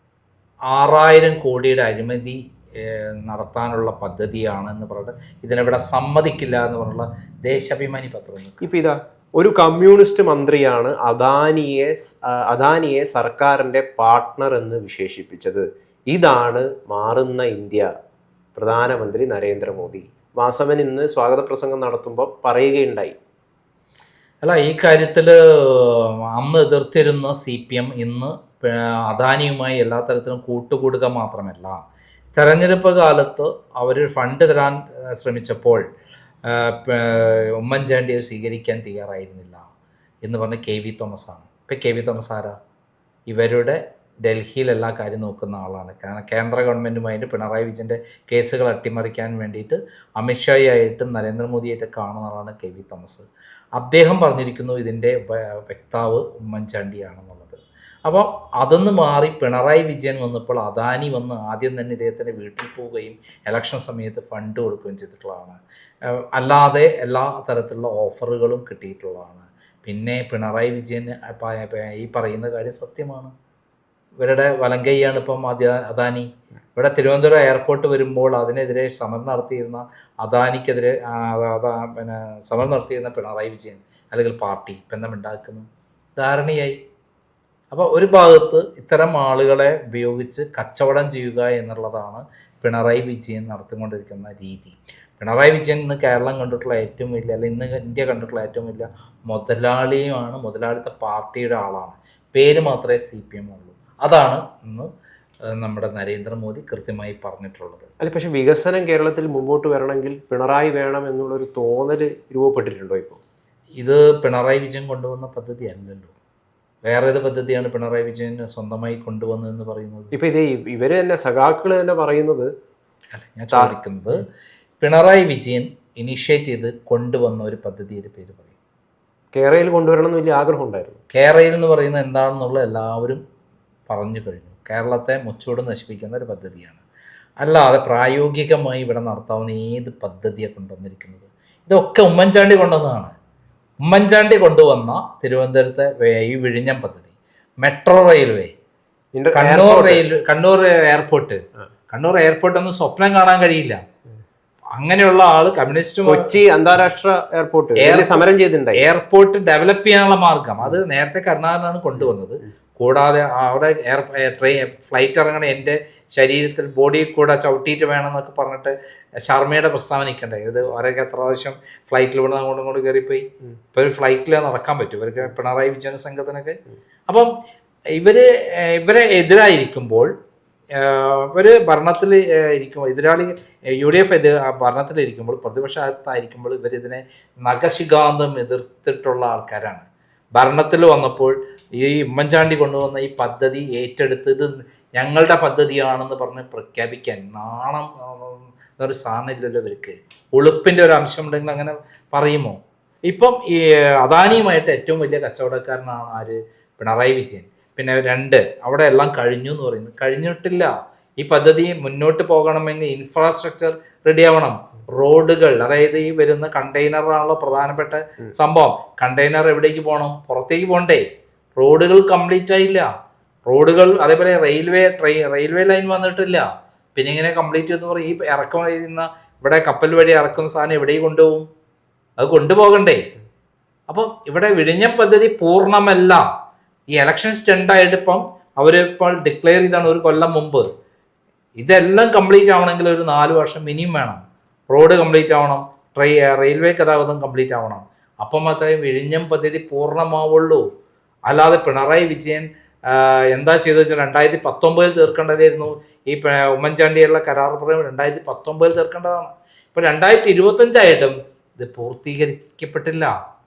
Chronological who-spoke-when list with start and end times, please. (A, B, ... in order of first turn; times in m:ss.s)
0:00.7-0:08.7 A
0:08.6-0:17.9 B
0:18.5-0:23.2 B
0:24.4-0:31.8 A
0:32.3-0:35.8 A
0:36.4-0:39.7 A
0:40.2-0:42.6 A
0:43.3-1:13.3 A
1:14.2-1:26.8 A
1:27.7-1:44.9 A
1:45.5-1:47.9 A
1:48.0-1:53.2 B
1:53.8-1:56.1 A
1:56.8-2:00.1 A
2:00.1-2:02.5 B
2:03.1-2:04.2 A
2:03.5-2:04.2 B
2:04.8-2:08.5 A
2:09.3-2:11.0 B
2:11.1-2:13.2 A
2:13.9-2:16.8 A
2:17.4-2:23.1 A
2:23.8-2:27.1 A
2:27.6-2:28.5 A
2:29.1-2:30.0 B
2:29.3-2:33.8 A
2:34.8-2:36.3 A
2:36.0-2:38.8 B
2:37.8-2:38.2 A
2:38.7-2:48.7 A
2:49.3-2:57.3 A
2:58.0-3:00.1 A
3:00.7-3:41.0 A
3:41.6-3:42.9 A
3:43.5-3:51.4 A
3:52.2-3:53.0 A
3:53.9-3:56.2 A
3:56.9-4:00.6 A
4:01.6-4:10.6 A
4:11.3-4:23.1 A